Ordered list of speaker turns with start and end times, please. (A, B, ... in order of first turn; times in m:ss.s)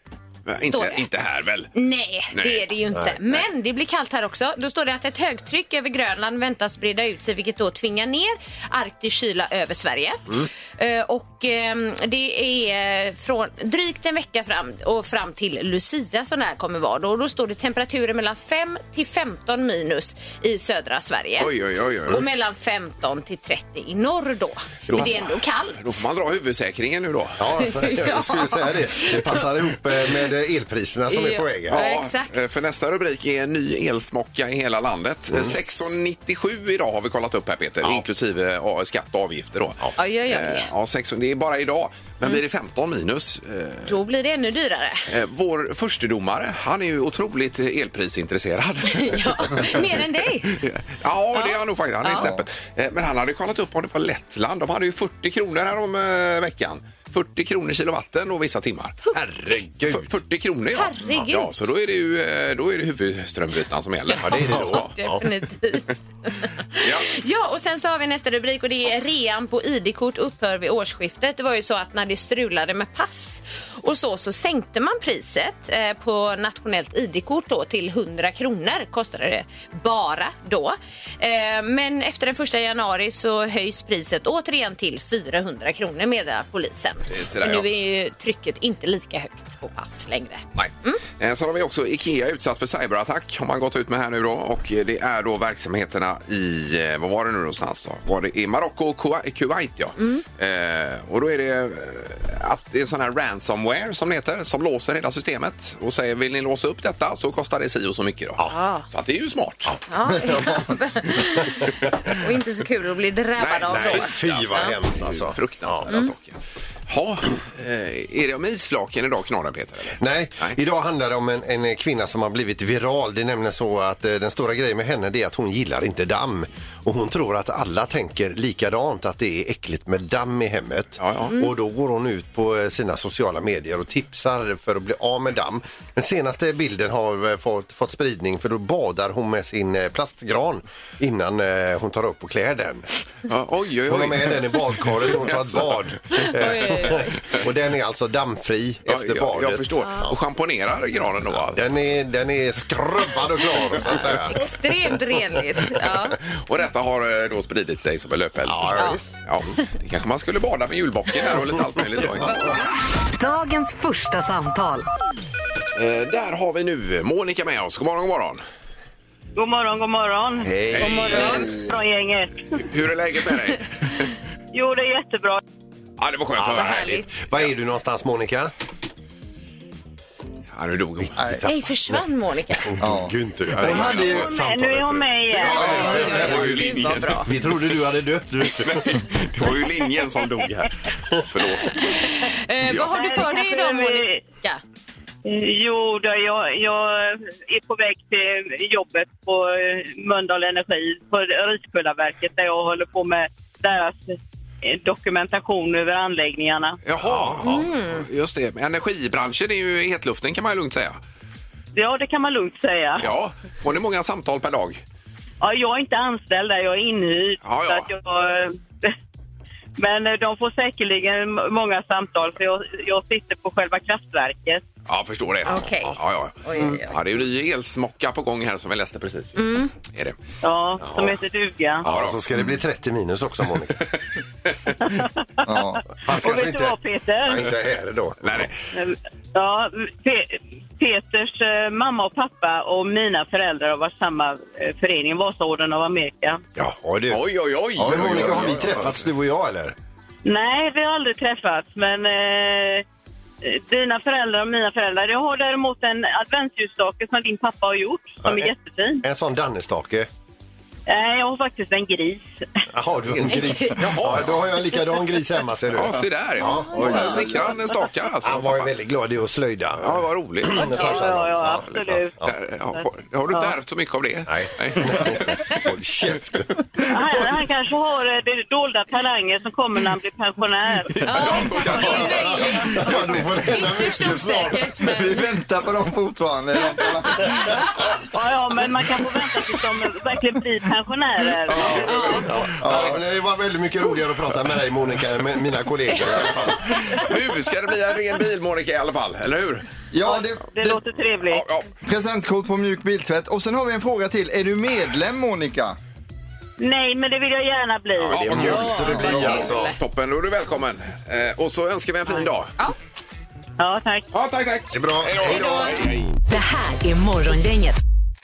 0:00.4-0:01.7 A
0:00.7-0:01.0 B
0:01.7-0:21.5 B
0:02.3-0:02.7 A
0:21.4-0:22.2 A
0:22.1-0:26.0 B
0:24.9-0:27.4 A
0:24.9-0:25.2 C
0:27.4-0:31.9 C
0:27.6-0:29.4 B
0:31.1-0:32.3 B
0:31.7-0:44.0 A
0:40.0-0:40.7 B
0:43.8-0:45.0 B
0:45.1-1:04.9 A
0:48.9-0:50.6 B
0:51.3-0:52.3 B
0:59.2-1:00.0 C
1:00.7-1:01.5 B
1:04.1-1:31.0 B
1:04.2-1:05.2 C
1:06.8-1:07.1 A
1:27.1-1:27.7 A
1:30.5-1:49.8 A
1:40.0-1:40.2 B
1:48.5-1:48.8 B
1:49.6-1:50.4 C
1:49.9-1:54.7 B
1:53.4-2:00.5 A
1:53.7-1:55.9 C
2:00.0-2:22.9 C
2:11.0-2:11.3 A
2:23.3-2:25.9 A
2:23.9-2:30.2 C
2:26.1-2:27.2 B
2:28.9-2:31.6 A
2:29.8-2:30.1 B
2:31.4-2:34.5 C
2:34.2-2:36.2 B
2:36.3-2:42.6 A
2:38.4-2:39.1 C
2:43.1-2:44.9 D
2:45.7-2:48.4 A
2:49.3-2:50.5 E
2:50.4-2:51.3 C
2:50.7-2:51.4 A
2:50.8-2:51.5 B
2:51.2-2:51.7 F
2:51.2-2:52.6 E
2:52.5-2:53.7 A
2:54.5-2:55.4 E
2:56.0-2:57.4 A
2:56.4-2:58.5 C
2:56.5-2:57.1 B
3:00.5-3:01.2 A
3:01.0-3:02.0 C
3:01.4-3:02.7 B
3:02.5-3:09.0 C
3:02.8-3:04.4 F
3:03.5-3:04.4 A
3:04.3-3:05.7 E
3:05.3-3:07.3 A
3:05.4-3:06.5 F
3:05.6-3:07.2 B
3:08.5-3:12.0 A
3:11.8-3:14.6 B
3:12.8-3:14.2 E
3:15.2-3:26.8 E
3:26.8-3:31.0 A
3:27.0-3:27.7 C
3:27.4-3:28.0 B
3:31.7-3:33.0 E
3:33.0-3:34.8 A
3:35.4-3:38.9 E
3:37.4-3:37.9 A
3:39.8-3:44.6 E
3:44.9-3:50.2 A
3:45.4-3:47.0 B
3:49.4-3:49.7 B
3:50.4-3:51.8 E
3:50.8-3:51.2 C
3:51.8-3:53.9 C
3:51.8-3:52.2 A
3:54.8-3:55.6 E
3:55.4-3:55.8 F
3:56.0-3:58.5 C
3:56.1-3:57.4 E
3:58.2-3:58.6 A
3:58.7-4:06.4 E
4:06.5-4:09.7 C
4:07.1-4:09.0 A
4:07.8-4:09.0 F
4:10.2-4:12.8 E
4:13.4-4:19.0 E
4:18.2-4:20.1 C
4:20.9-4:22.3 E
4:22.7-4:27.6 C
4:23.3-4:23.8 B
4:23.7-4:24.4 A
4:25.7-4:28.7 A
4:26.6-4:27.3 B
4:26.9-4:27.1 F
4:28.2-4:32.3 C
4:29.8-4:31.1 A
4:30.6-4:32.1 E
4:32.2-4:35.2 A
4:34.3-4:36.8 C
4:36.9-4:40.9 E
4:40.9-4:42.5 A
4:41.0-4:45.2 B
4:41.6-4:44.8 C
4:42.8-4:43.3 F
4:44.8-4:47.7 F
4:46.9-4:47.5 B
4:47.9-4:52.2 E
4:51.5-4:53.0 A
4:51.8-4:52.3 B
4:51.9-4:56.9 C
4:52.6-4:53.0 F
4:56.9-4:59.6 A
4:59.9-5:00.8 F
5:00.0-5:01.4 E
5:01.3-5:01.6 A
5:01.8-5:05.8 F
5:06.6-5:08.7 E
5:08.1-5:09.7 C
5:08.1-5:12.5 A
5:08.3-5:09.4 F
5:08.5-5:09.8 B
5:13.6-5:14.1 E
5:14.1-5:16.1 A
5:14.7-5:15.9 C
5:15.3-5:15.8 B
5:16.3-5:17.8 D